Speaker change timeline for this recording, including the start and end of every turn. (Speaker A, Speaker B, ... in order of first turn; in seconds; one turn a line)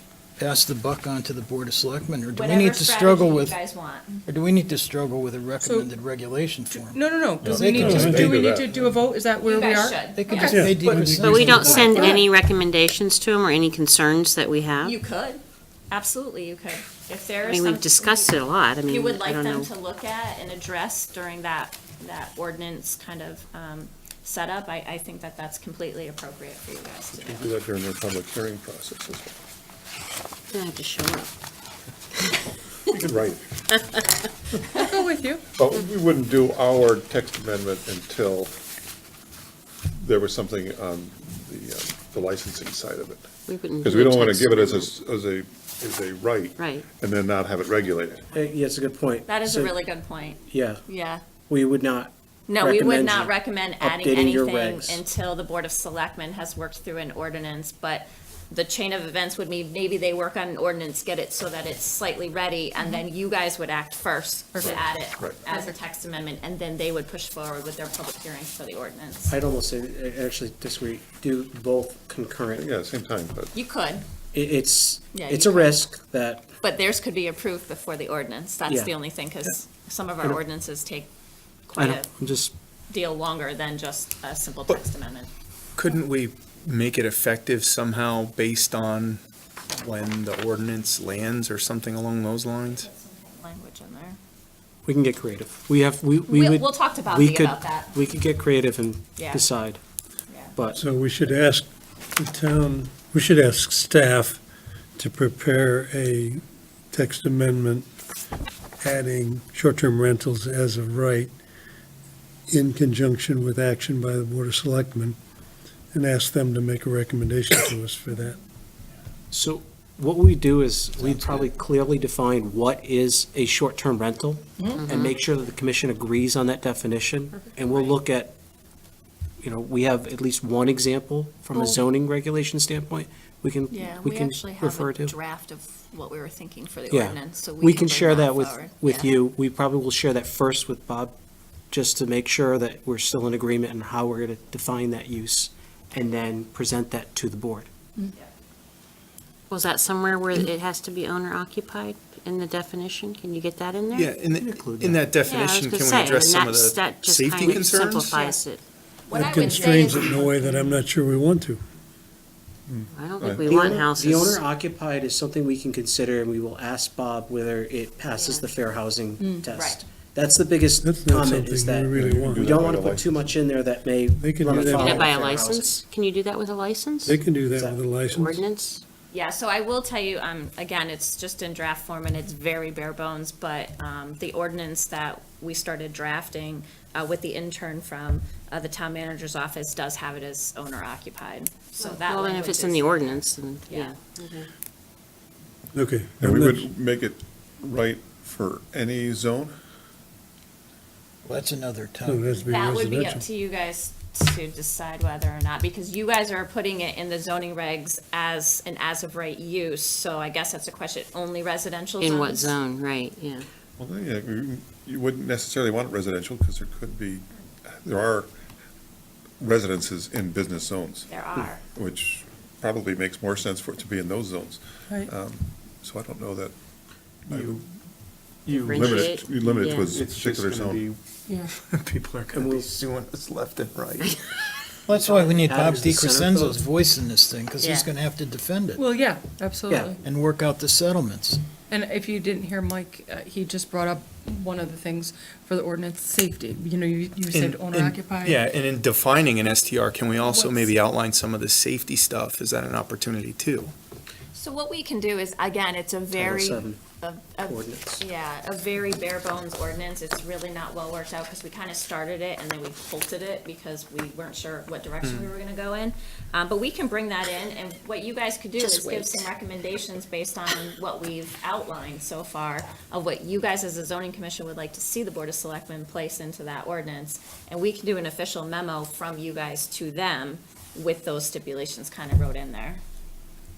Speaker A: 0.4-3.5
Speaker B: 2.3-4.2
Speaker A: 4.3-6.9
Speaker C: 5.6-5.9
Speaker C: 6.7-12.2
Speaker D: 7.4-9.0
Speaker E: 7.4-8.4
Speaker A: 7.5-8.1
Speaker F: 7.7-8.3
Speaker B: 9.4-10.7
Speaker A: 10.2-11.6
Speaker E: 10.2-12.1
Speaker F: 10.3-11.7
Speaker G: 11.2-14.9
Speaker B: 14.8-27.5
Speaker G: 17.4-19.7
Speaker D: 27.1-29.3
Speaker G: 30.5-31.3
Speaker D: 32.9-33.4
Speaker C: 34.8-35.4
Speaker D: 35.5-38.5
Speaker D: 40.0-43.3
Speaker G: 43.5-44.9
Speaker D: 43.8-48.3
Speaker G: 46.6-46.8
Speaker H: 48.3-49.8
Speaker B: 49.2-51.2
Speaker H: 50.5-50.8
Speaker H: 51.5-55.0
Speaker B: 52.5-69.3
Speaker C: 64.5-64.8
Speaker D: 64.6-65.4
Speaker C: 65.5-65.7
Speaker H: 69.3-72.7
Speaker D: 72.5-73.5
Speaker B: 73.5-74.0
Speaker H: 74.3-76.5
Speaker B: 75.1-75.9
Speaker B: 76.6-81.1
Speaker H: 78.7-78.9
Speaker B: 81.7-82.1
Speaker H: 81.8-82.5
Speaker B: 82.9-85.3
Speaker E: 85.8-89.2
Speaker E: 89.7-92.8
Speaker B: 92.7-94.2
Speaker H: 94.8-99.8
Speaker B: 96.3-98.0
Speaker B: 99.2-99.5
Speaker B: 100.3-100.5
Speaker H: 100.5-100.8
Speaker F: 100.7-104.4
Speaker F: 105.0-106.4
Speaker F: 106.9-107.9
Speaker F: 108.8-111.3
Speaker F: 112.5-115.2
Speaker F: 115.9-118.4
Speaker H: 119.3-128.3
Speaker G: 124.8-125.1
Speaker B: 127.6-127.9
Speaker H: 129.4-135.1
Speaker B: 133.7-139.1
Speaker H: 136.9-141.1
Speaker H: 141.7-147.7
Speaker G: 149.5-154.1
Speaker E: 153.9-158.2
Speaker H: 154.3-155.1
Speaker G: 155.2-158.6
Speaker B: 159.1-160.3
Speaker F: 159.1-161.6
Speaker C: 160.3-160.8
Speaker D: 162.7-163.6
Speaker G: 162.9-164.4
Speaker H: 163.4-175.8
Speaker G: 168.1-168.5
Speaker C: 169.2-169.5
Speaker B: 169.5-169.8
Speaker F: 170.8-172.6
Speaker D: 171.9-173.2
Speaker F: 174.1-175.0
Speaker G: 174.5-177.2
Speaker F: 177.0-178.4
Speaker H: 177.5-177.8
Speaker G: 178.1-178.8
Speaker B: 179.1-193.9
Speaker G: 191.8-194.5
Speaker F: 195.7-196.7
Speaker D: 196.2-199.5
Speaker A: 201.2-202.1
Speaker F: 202.0-203.2
Speaker B: 202.4-212.5
Speaker G: 212.0-213.4
Speaker D: 213.8-218.3
Speaker D: 219.4-226.6
Speaker B: 221.1-221.6
Speaker D: 227.3-227.6
Speaker E: 227.3-227.6
Speaker E: 228.4-231.0
Speaker G: 228.5-229.9
Speaker D: 228.5-230.9
Speaker E: 231.6-234.2
Speaker H: 232.3-232.7
Speaker H: 234.9-236.7
Speaker A: 235.0-238.8
Speaker E: 235.5-235.9
Speaker G: 237.6-237.9
Speaker C: 238.8-240.0
Speaker H: 239.7-239.9
Speaker A: 240.0-241.4
Speaker C: 241.7-248.4
Speaker E: 247.3-253.7
Speaker C: 250.2-250.7
Speaker B: 254.3-282.8
Speaker H: 256.1-256.8
Speaker H: 257.4-257.9
Speaker E: 265.0-265.3
Speaker G: 268.6-269.2